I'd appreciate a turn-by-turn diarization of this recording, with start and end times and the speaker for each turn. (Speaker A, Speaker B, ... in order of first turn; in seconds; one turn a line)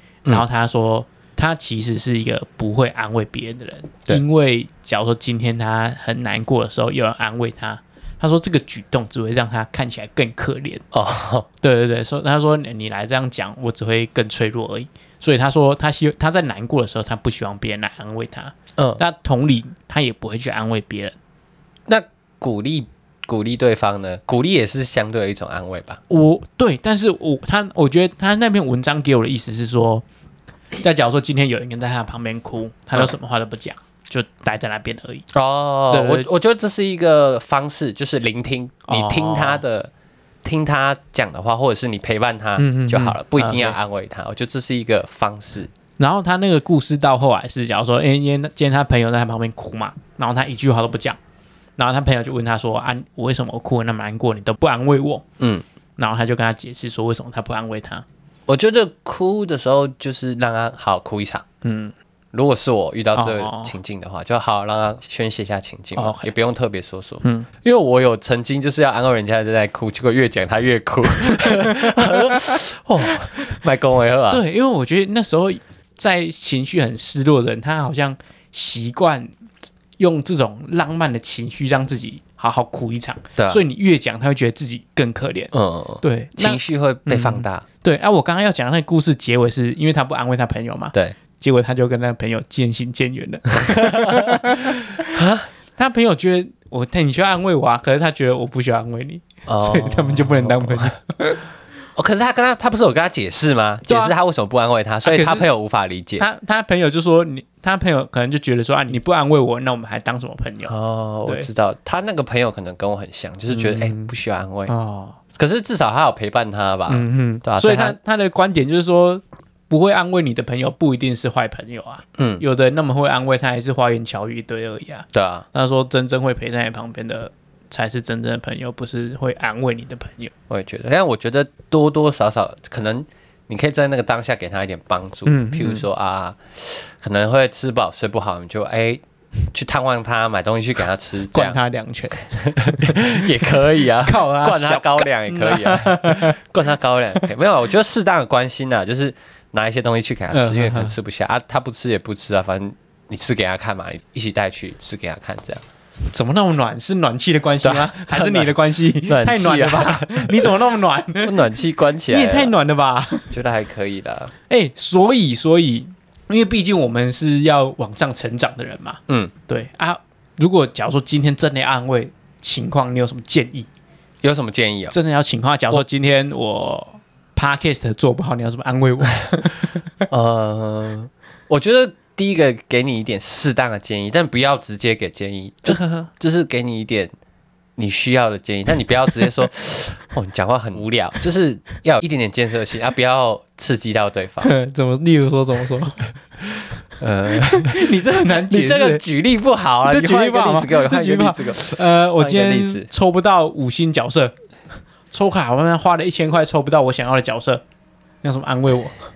Speaker A: 0.3-10.8
Speaker B: 10.9-11.5
Speaker A: 11.6-21.2
Speaker B: 18.8-19.0
Speaker B: 21.9-26.0
Speaker A: 26.1-30.0
Speaker A: 30.8-35.2
Speaker B: 35.3-39.9
Speaker A: 35.9-36.3
Speaker A: 38.9-39.6
Speaker B: 40.4-45.7
Speaker A: 42.6-43.8
Speaker A: 46.0-51.2
Speaker A: 51.8-55.2
Speaker B: 55.4-55.6
Speaker A: 56.0-58.0
Speaker B: 58.5-61.4
Speaker A: 61.6-61.9
Speaker B: 62.3-74.4
Speaker A: 63.1-63.7
Speaker A: 66.0-66.3
Speaker A: 67.2-67.5
Speaker A: 71.4-72.6
Speaker A: 74.3-79.3
Speaker A: 80.0-95.2
Speaker B: 83.4-83.6
Speaker B: 85.5-87.7
Speaker B: 93.6-95.5
Speaker A: 95.8-101.4
Speaker B: 99.5-100.9
Speaker B: 102.0-106.2
Speaker A: 103.9-104.2
Speaker A: 105.0-105.5
Speaker A: 106.2-110.8
Speaker B: 110.7-114.7
Speaker A: 113.5-114.1
Speaker A: 114.7-115.2
Speaker B: 115.3-118.0
Speaker A: 116.9-130.3
Speaker B: 122.2-122.4
Speaker B: 125.1-125.5
Speaker B: 130.5-139.0
Speaker A: 135.2-135.9
Speaker B: 139.5-141.6
Speaker A: 141.3-142.3
Speaker B: 142.3-155.6
Speaker A: 144.0-146.4
Speaker A: 150.3-150.9
Speaker A: 156.1-161.3
Speaker B: 157.6-160.5
Speaker B: 161.2-162.5
Speaker A: 162.1-163.3
Speaker B: 163.3-164.3
Speaker A: 164.5-173.7
Speaker B: 174.2-174.9
Speaker A: 174.9-179.8
Speaker B: 180.1-187.1
Speaker A: 185.7-186.1
Speaker B: 187.8-194.5
Speaker A: 194.4-196.1
Speaker B: 197.0-202.9
Speaker A: 197.4-199.0
Speaker A: 199.8-204.3
Speaker A: 205.1-207.6
Speaker A: 208.2-208.9